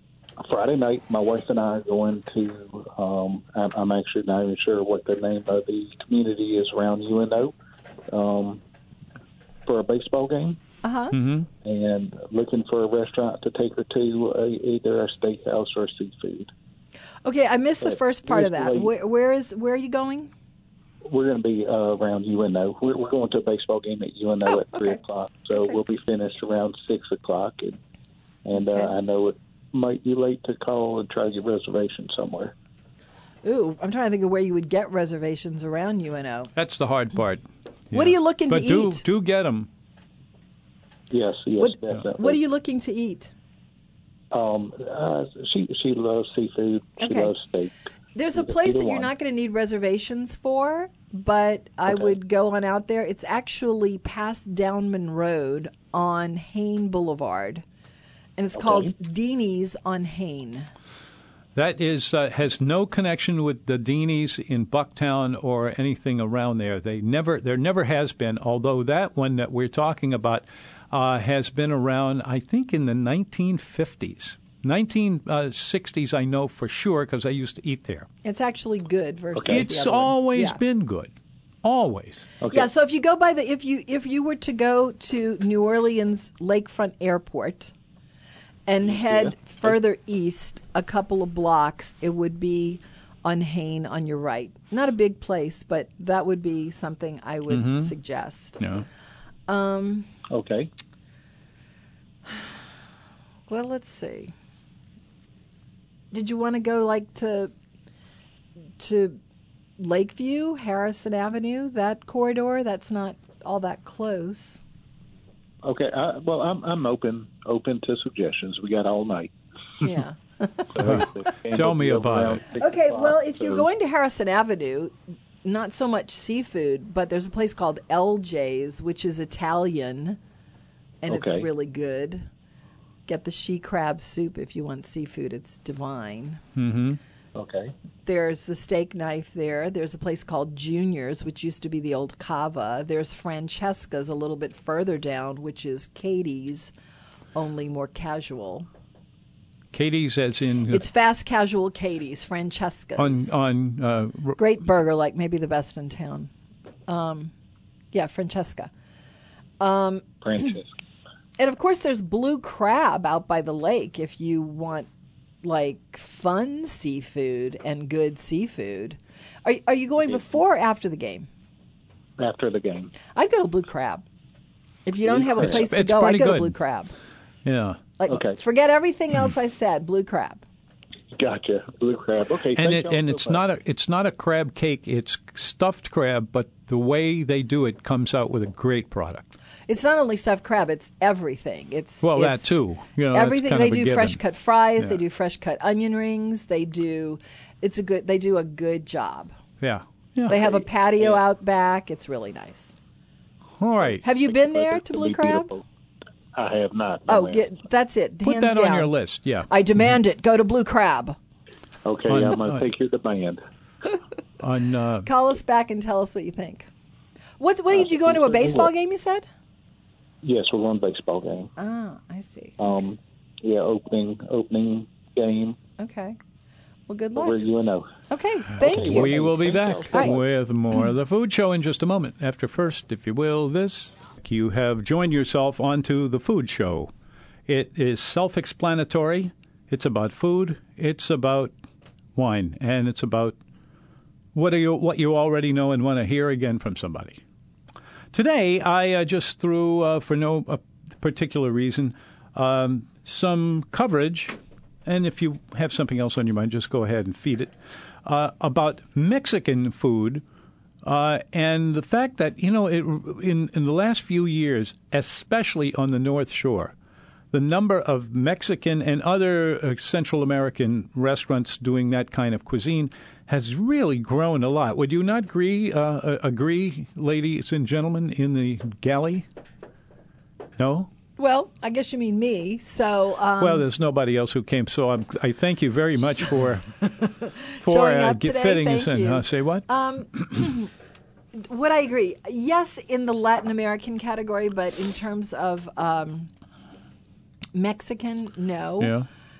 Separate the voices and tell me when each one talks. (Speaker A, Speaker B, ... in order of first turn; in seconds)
Speaker A: 0.4-7.5, 8.1-8.6, 9.7-10.6, 11.6-16.5, 17.8-18.9, 21.0-27.8, 28.4-32.5, 41.1-42.4, 44.3-47.7, 48.4-49.1, 58.5-58.9, 79.3-79.7, 82.4-82.7, 88.8-89.3, 100.3-100.7, 115.6-119.3, 120.7-123.7, 131.1-131.5, 137.3-137.7, 160.2-160.7, 172.2-172.9, 175.0-175.6, 178.1-178.4, 181.1-183.4, 200.4-201.2, 203.9-205.6, 206.3-207.5, 211.8-213.4, 217.7-218.7, 220.2-221.5, 222.6-225.6, 227.2-227.9, 228.6-230.2
Speaker B: 10.8-11.2, 17.2-20.3, 24.4-25.0, 33.4-36.5, 37.9-39.0, 41.6-43.3, 47.0-47.3, 48.1-57.6, 58.4-60.7, 78.2-80.6, 82.5-87.7, 88.7-98.6, 99.5-100.1, 103.5-104.3, 106.1-107.5, 108.8-109.2, 109.8-114.6, 119.8-121.1, 122.6-130.2, 131.0-132.3, 133.1-136.4, 138.1-146.7, 147.3-148.7, 150.7-153.4, 154.3-156.3, 156.9-157.3, 157.9-158.7, 159.6-160.5, 161.4-164.9, 165.4-171.3, 173.1-174.0, 174.8-176.9, 178.0-180.4, 189.7-199.3, 200.3-202.7, 204.0-205.5, 207.1-208.9, 209.5-211.2, 215.0-216.7, 217.4-219.2, 221.6-222.6, 225.8-226.2, 226.9-227.4, 228.1-229.2, 229.9-230.2, 281.2-283.7, 286.8-290.7, 291.3-296.3, 297.5-299.0
Speaker C: 11.1-11.5, 36.5-39.7, 61.5-78.1, 79.5-81.1, 81.6-82.3, 97.5-97.9, 98.6-98.8, 120.8-122.4, 136.6-137.0, 149.7-150.8, 153.0-154.4, 175.4-176.6, 177.4-177.8, 182.5-189.3, 192.0-194.2, 199.6-200.4, 203.6-204.0, 208.2-209.5, 212.1-212.6, 214.4-215.1, 228.6-236.9, 237.5-241.5, 242.2-243.4, 244.3-247.2, 248.1-257.5, 258.0-260.2, 260.8-266.7, 267.3-279.3, 280.6-280.9, 283.4-286.7, 287.6-290.4, 298.8-299.1